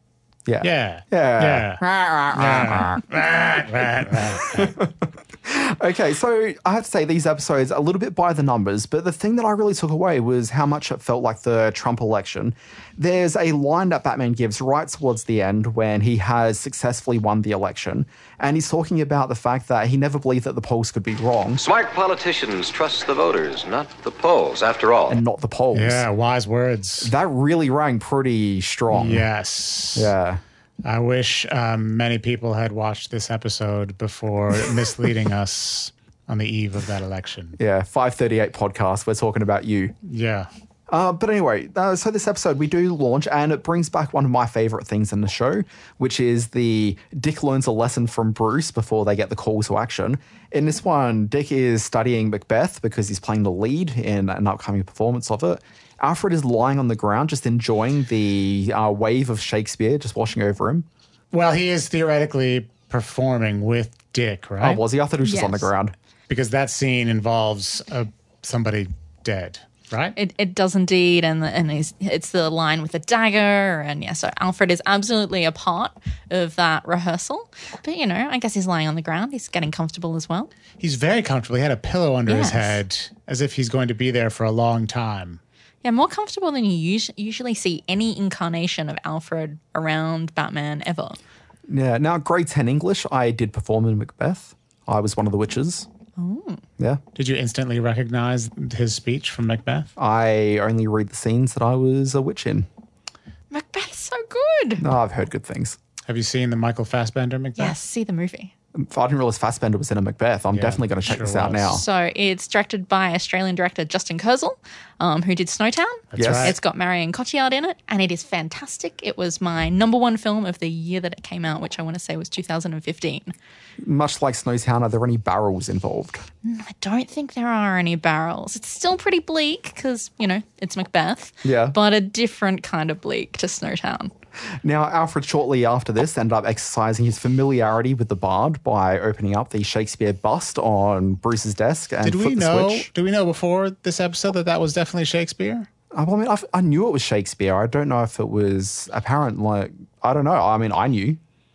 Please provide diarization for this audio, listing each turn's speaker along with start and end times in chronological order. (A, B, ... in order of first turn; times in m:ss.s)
0:00.5-0:03.1 A
0:00.6-0:01.8 B
0:02.3-0:04.7 B
0:04.4-0:21.6 A
0:21.6-0:25.2 C
0:25.1-0:26.1 A
0:25.7-0:27.1 B
0:27.0-0:29.3 A
0:28.9-0:30.1 B
0:30.0-0:30.4 A
0:30.8-0:37.6 B
0:37.6-0:39.9 A
0:40.1-0:40.5 B
0:40.9-1:00.9 A
1:01.3-1:04.8 B
1:04.6-1:06.0 A
1:05.2-1:05.7 D
1:06.3-1:10.2 B
1:10.2-1:20.5 D
1:20.8-1:25.4 B
1:22.3-1:22.8 D
1:25.8-1:31.2 D
1:31.7-1:35.9 A
1:36.2-1:36.6 D
1:37.2-1:39.9 B
1:40.0-1:42.7 A
1:43.5-1:44.8 D
1:44.8-1:45.8 A
1:46.1-1:47.8 B
1:47.6-1:48.5 D
1:48.8-1:51.8 A
1:50.5-1:51.8 B
1:51.7-2:03.3 D
1:56.1-1:56.6 B
1:56.2-1:56.6 A
2:03.8-2:06.3 A
2:06.4-2:14.1 D
2:11.4-2:11.8 A
2:14.6-2:22.9 A
2:22.0-2:25.7 B
2:25.9-2:31.2 A